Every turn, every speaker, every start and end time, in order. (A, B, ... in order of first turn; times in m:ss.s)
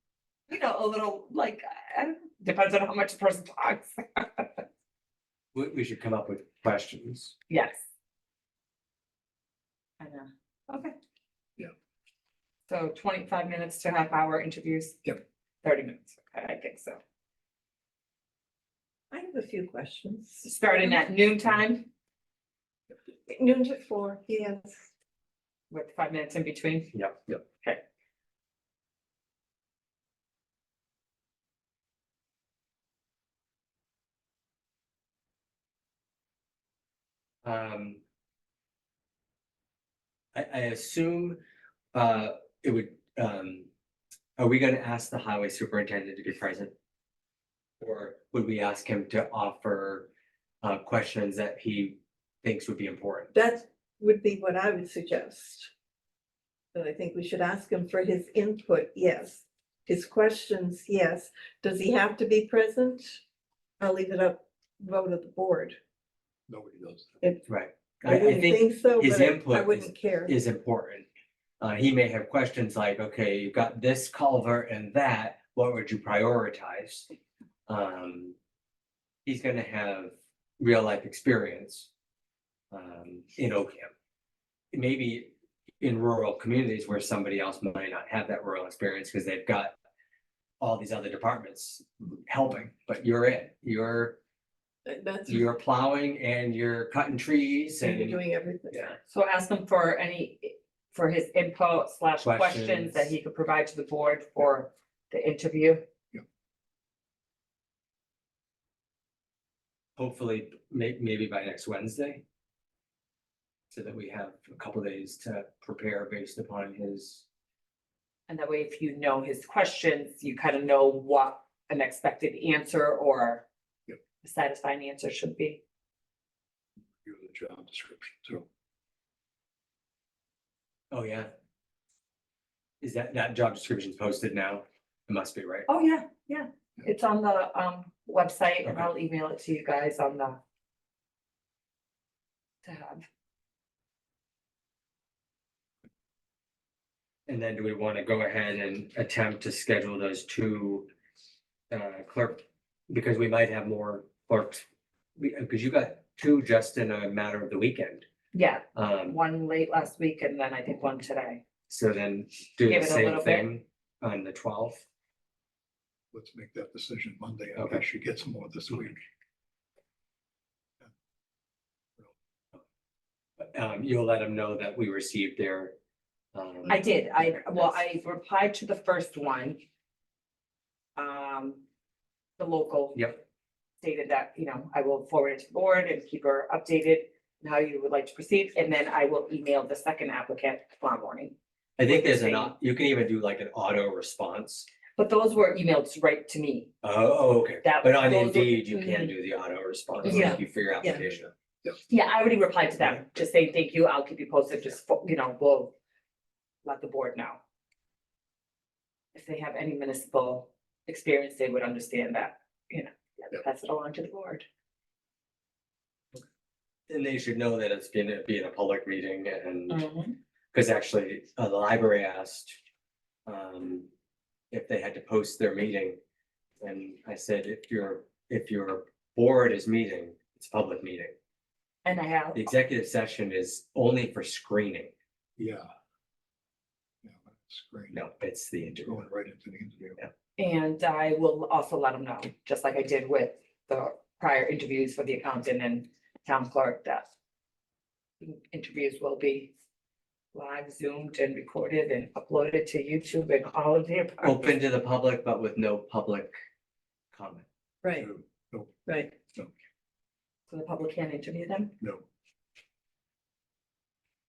0:00.5-0:04.6 A
0:05.5-0:07.4 B
0:07.5-0:07.8 A
0:10.0-0:10.9 A
0:12.7-0:17.0 A
0:19.1-0:21.0 C
0:20.4-0:21.9 A
0:23.3-0:24.9 C
0:25.7-0:27.8 A
0:26.9-0:27.4 B
0:37.4-0:38.0 B
0:40.3-0:41.4 B
0:41.9-0:43.7 B
0:44.4-0:46.7 B
0:47.8-0:50.1 B
0:50.6-0:53.3 B
0:53.3-0:55.7 C
0:56.7-1:03.2 C
1:03.8-1:05.8 C
1:06.5-1:07.1 D
1:07.5-1:11.1 B
1:08.0-1:10.3 C
1:11.6-1:17.1 B
1:17.7-1:18.4 B
1:19.3-1:21.9 B
1:22.7-1:23.9 B
1:24.7-1:29.8 B
1:30.6-1:34.2 B
1:34.9-1:35.5 C
1:35.3-1:38.2 B
1:37.8-1:38.9 C
1:38.7-1:39.0 B
1:39.1-1:45.8 A
1:42.2-1:43.1 B
1:50.0-1:52.2 B
1:53.7-1:57.3 B
1:58.3-2:03.4 A
2:04.2-2:05.6 A
2:07.0-2:08.5 D
2:10.9-2:11.3 B
2:12.8-2:15.7 B
2:15.7-2:20.4 A
2:22.6-2:23.0 A
2:27.3-2:30.9 B
2:31.7-2:34.6 B
2:35.2-2:38.1 B
2:38.3-2:41.4 A
2:38.8-2:39.2 B
2:41.7-2:44.9 B
2:42.7-2:43.5 A
2:46.1-2:49.0 D
2:53.4-2:55.8 B
2:56.3-2:57.8 B
2:56.7-2:59.6 A
3:01.0-3:01.6 A
3:02.4-3:03.2 A
3:03.8-3:11.3 A
3:11.8-3:14.7 B
3:11.9-3:12.5 A
3:15.0-3:16.7 A
3:16.8-3:21.3 B
3:17.6-3:19.1 A
3:20.0-3:20.4 A
3:20.1-3:21.0 C
3:21.0-3:21.7 D
3:21.9-3:25.7 A
3:26.6-3:27.4 A
3:29.1-3:34.4 A
3:36.9-3:39.8 B
3:39.7-3:40.2 A
3:40.5-3:42.6 B
3:43.3-3:43.9 B
3:44.5-3:46.0 B
3:46.6-3:51.2 B
3:51.8-3:52.5 A
3:52.4-3:54.9 B
3:55.4-3:55.7 D
3:57.0-3:58.0 D
3:57.9-3:59.1 B
3:58.8-4:00.0 D
4:00.4-4:07.1 A
4:08.2-4:09.5 A
4:10.3-4:14.5 A
4:14.2-4:16.3 B
4:17.1-4:17.5 B
4:17.8-4:18.1 C
4:18.0-4:19.5 D
4:18.9-4:19.1 C
4:20.5-4:21.7 A